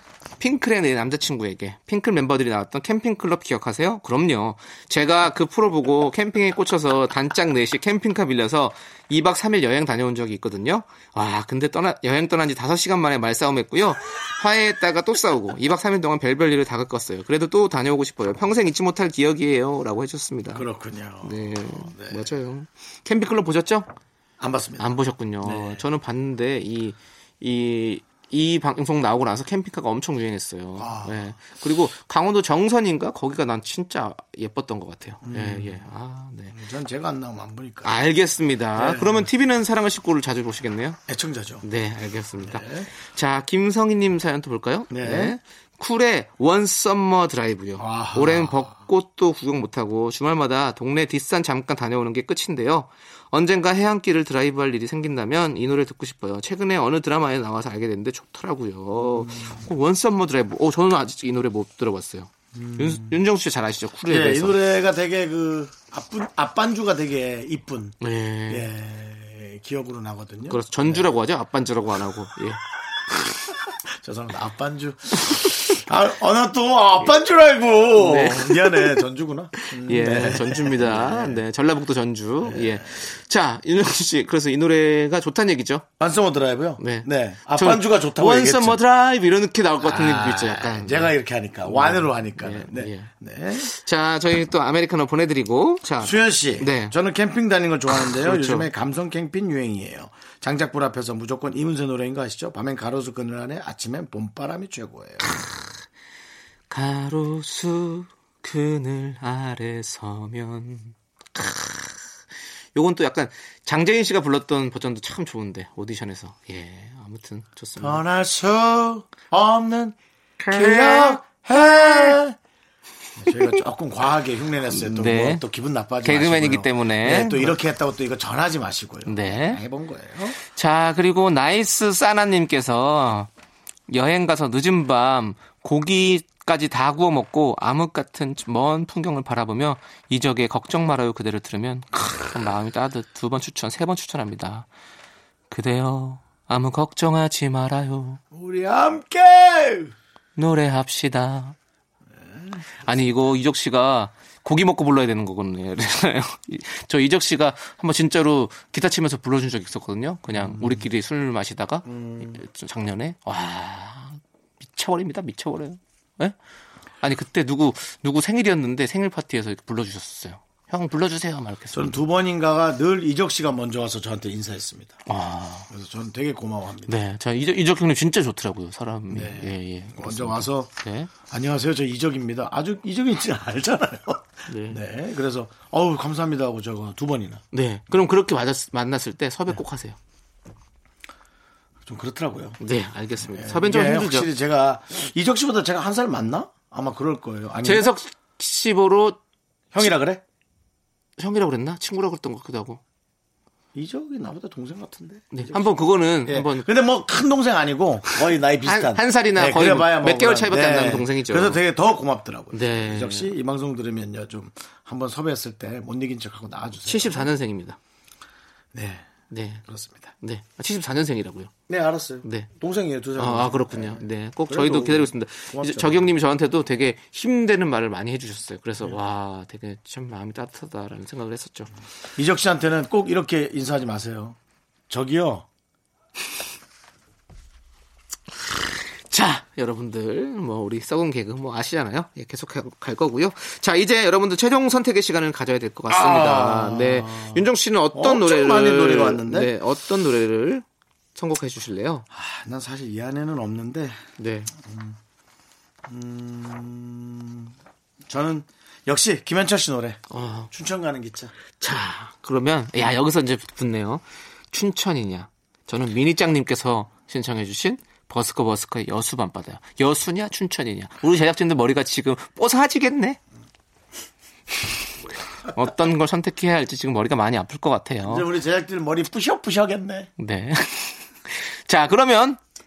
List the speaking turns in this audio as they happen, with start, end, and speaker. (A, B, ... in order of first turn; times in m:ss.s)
0:00.4-0:20.7 A
0:20.5-0:22.3 B
0:21.2-0:23.9 A
0:24.4-0:25.8 B
0:24.8-0:36.6 A
0:30.8-0:31.4 B
0:35.2-0:35.8 B
0:36.5-0:38.0 B
0:37.8-0:41.0 A
0:38.8-0:39.3 B
0:41.1-0:41.6 B
0:41.6-1:04.6 A
0:42.4-0:42.9 B
0:44.9-0:45.4 B
0:47.8-0:48.7 B
0:59.0-0:59.6 B
1:02.5-1:03.2 B
1:04.0-1:08.0 B
1:08.0-1:08.7 A
1:08.5-1:11.1 B
1:10.5-1:12.6 A
1:13.8-1:21.4 B
1:18.0-1:19.0 A
1:19.6-1:25.9 A
1:22.4-1:22.9 B
1:26.0-1:28.8 B
1:26.8-1:37.0 A
1:29.8-1:33.7 B
1:36.0-1:45.3 B
1:38.0-1:38.7 A
1:45.2-1:45.8 A
1:46.7-1:52.1 A
1:52.8-1:58.0 A
1:57.8-2:02.4 B
2:00.4-2:02.2 A
2:03.2-2:10.4 B
2:03.3-2:03.6 A
2:04.7-2:05.4 A
2:06.0-2:07.6 A
2:09.1-2:09.6 A
2:10.4-2:13.3 A
2:13.9-2:24.7 A
2:25.5-2:28.2 A
2:28.3-2:29.9 B
2:30.4-2:31.6 A
2:32.2-2:32.9 B
2:32.8-2:46.4 A
2:40.3-2:40.8 B
2:41.9-2:42.4 B
2:47.0-2:52.0 A
2:51.7-2:55.0 B
2:55.1-2:55.7 A
2:55.7-2:56.9 B
2:56.9-3:01.1 A
2:59.1-3:07.4 B
3:04.5-3:04.8 A
3:07.5-3:10.0 A
3:11.8-3:12.6 B
3:12.6-3:14.3 A
3:13.3-3:17.9 B
3:17.6-3:19.2 A
3:19.7-3:20.2 B
3:21.2-3:22.8 A
3:23.7-3:37.3 B
3:25.3-3:26.7 A
3:28.6-3:31.6 A
3:32.5-3:33.3 A
3:36.8-3:37.8 A
3:38.7-3:39.1 B
3:39.3-3:39.6 A
3:39.7-3:40.1 B
3:40.2-3:41.5 A
3:41.7-3:46.1 B
3:42.2-3:42.5 A
3:43.2-3:51.7 A
3:52.2-3:54.4 B
3:54.9-3:55.5 B
3:59.1-4:12.1 A
4:05.9-4:09.5 B
4:12.1-4:14.0 B
4:14.2-4:14.5 A
4:14.6-4:15.0 B
4:15.9-4:17.5 B
4:18.1-4:21.3 B
4:20.1-4:20.5 A
4:21.6-4:33.2 A
4:35.5-4:38.3 A
4:38.0-4:40.1 B
4:40.2-4:42.4 A